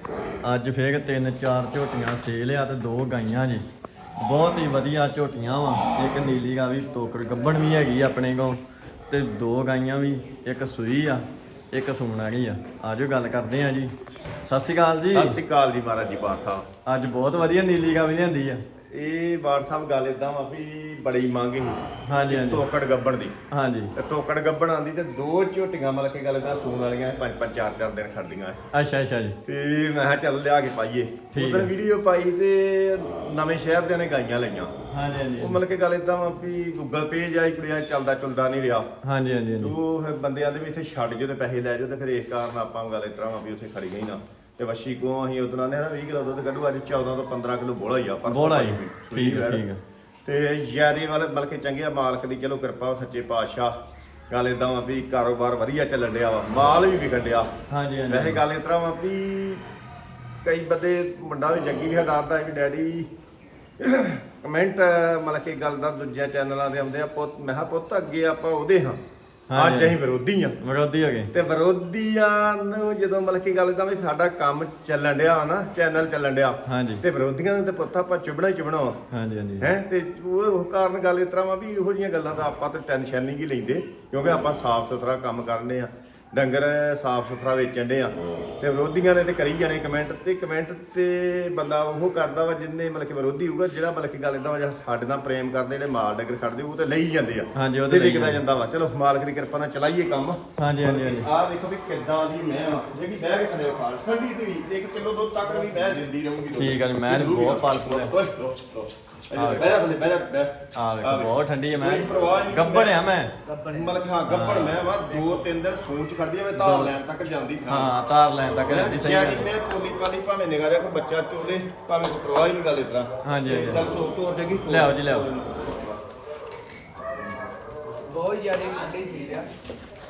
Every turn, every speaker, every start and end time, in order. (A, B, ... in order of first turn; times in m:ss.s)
0:00.4-0:03.6 A
0:04.2-0:13.9 A
0:14.5-0:15.4 A
0:15.1-0:16.6 B
0:16.9-0:18.6 A
0:18.9-0:23.3 B
0:22.1-0:22.6 A
0:23.5-0:23.9 A
0:24.0-0:28.6 B
0:28.7-0:29.4 A
0:29.5-0:34.7 B
0:31.3-0:31.7 A
0:34.9-0:35.6 A
0:35.4-0:38.9 B
0:39.0-0:39.8 A
0:39.6-0:49.6 B
0:48.3-0:49.8 A
0:50.3-0:53.7 B
0:54.3-0:57.5 B
0:57.7-0:58.4 A
0:58.1-0:59.6 B
1:00.4-1:03.1 B
1:03.8-1:09.0 B
1:09.5-1:10.0 A
1:09.6-1:10.6 B
1:10.6-1:11.3 A
1:11.3-1:19.0 B
1:16.7-1:17.0 A
1:19.1-1:19.7 A
1:19.6-1:53.0 B
1:37.6-1:38.4 A
1:40.6-1:41.3 A
1:46.6-1:48.1 A
1:49.3-1:49.7 A
1:50.8-1:53.3 A
1:53.4-1:54.0 C
1:53.7-1:57.9 B
1:54.3-1:54.8 A
1:55.0-1:55.4 C
1:56.6-1:56.9 A
1:57.7-1:59.5 A
1:58.7-2:06.0 B
2:03.2-2:03.8 A
2:04.7-2:05.3 A
2:08.1-2:09.5 C